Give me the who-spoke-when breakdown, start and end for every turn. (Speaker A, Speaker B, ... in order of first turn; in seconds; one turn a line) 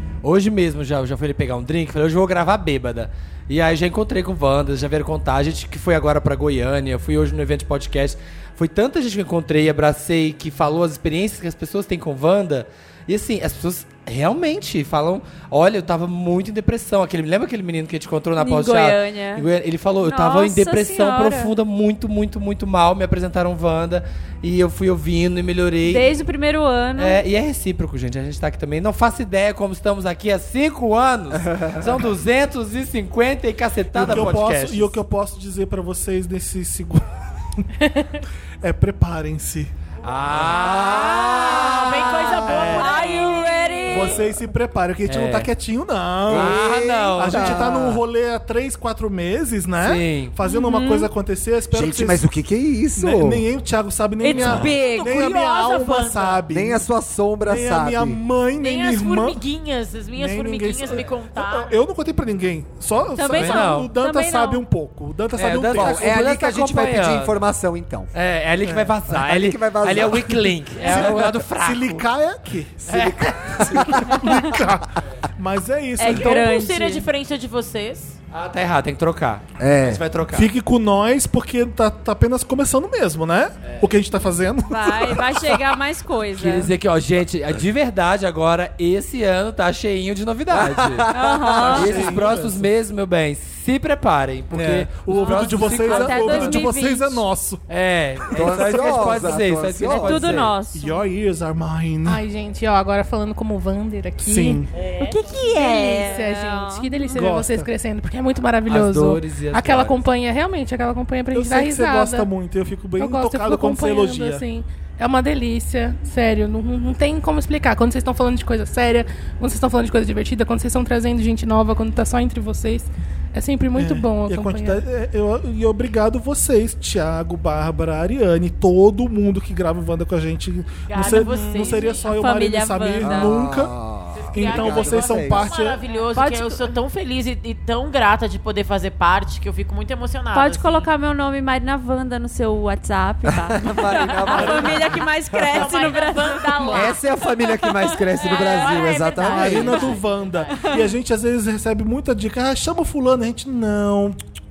Speaker A: 0.2-26.1
Speaker B: 18.4-19.4
Speaker B: 20.0-21.5
Speaker B: 25.8-27.2
Speaker A: 27.0-35.0
Speaker C: 31.5-31.8
Speaker D: 33.9-37.7
Speaker D: 38.6-39.7
Speaker A: 40.0-43.2
Speaker D: 40.3-40.6
Speaker E: 41.3-43.9
Speaker B: 41.5-41.8
Speaker B: 42.6-44.3
Speaker D: 43.9-52.3
Speaker A: 45.0-45.5
Speaker A: 46.3-47.8
Speaker C: 46.3-48.0
Speaker A: 49.8-50.3
Speaker B: 50.4-51.1
Speaker C: 51.7-53.4
Speaker D: 53.0-56.8
Speaker B: 54.2-55.1
Speaker E: 54.2-56.4
Speaker C: 56.5-58.2
Speaker D: 57.4-59.4
Speaker E: 58.6-61.7
Speaker D: 60.1-66.2
Speaker B: 63.1-64.7
Speaker A: 63.3-63.9
Speaker A: 65.3-67.4
Speaker C: 65.7-68.1
Speaker A: 68.1-72.0
Speaker D: 68.6-69.2
Speaker C: 69.1-71.3
Speaker D: 70.0-72.8
Speaker C: 72.8-74.7
Speaker A: 72.9-73.8
Speaker D: 73.5-76.6
Speaker B: 76.0-77.1
Speaker E: 76.0-78.1
Speaker A: 78.3-80.5
Speaker C: 79.6-80.0
Speaker D: 80.3-85.7
Speaker B: 84.7-86.7
Speaker A: 86.4-91.1
Speaker C: 90.5-92.1
Speaker B: 91.1-92.1
Speaker D: 91.6-92.7
Speaker A: 91.7-96.7
Speaker D: 94.5-97.6
Speaker B: 95.1-97.2
Speaker A: 97.7-100.5
Speaker D: 98.3-98.7
Speaker C: 98.3-100.4
Speaker B: 99.9-101.0
Speaker D: 100.7-102.2
Speaker F: 102.0-112.3
Speaker D: 104.2-104.7
Speaker B: 105.0-107.2
Speaker D: 107.2-107.7
Speaker A: 108.7-110.0
Speaker D: 111.3-114.4
Speaker F: 113.0-124.8
Speaker D: 123.8-133.7
Speaker E: 130.9-132.1
Speaker B: 131.6-133.3
Speaker C: 133.0-135.5
Speaker E: 134.1-140.9
Speaker D: 134.3-135.8
Speaker B: 136.1-136.7
Speaker B: 140.3-147.0
Speaker C: 143.2-144.9
Speaker D: 144.3-146.9
Speaker E: 145.5-147.0
Speaker C: 146.7-150.0
Speaker B: 147.6-148.6
Speaker E: 148.2-150.7
Speaker D: 149.2-154.2
Speaker B: 149.5-149.8
Speaker B: 150.5-150.9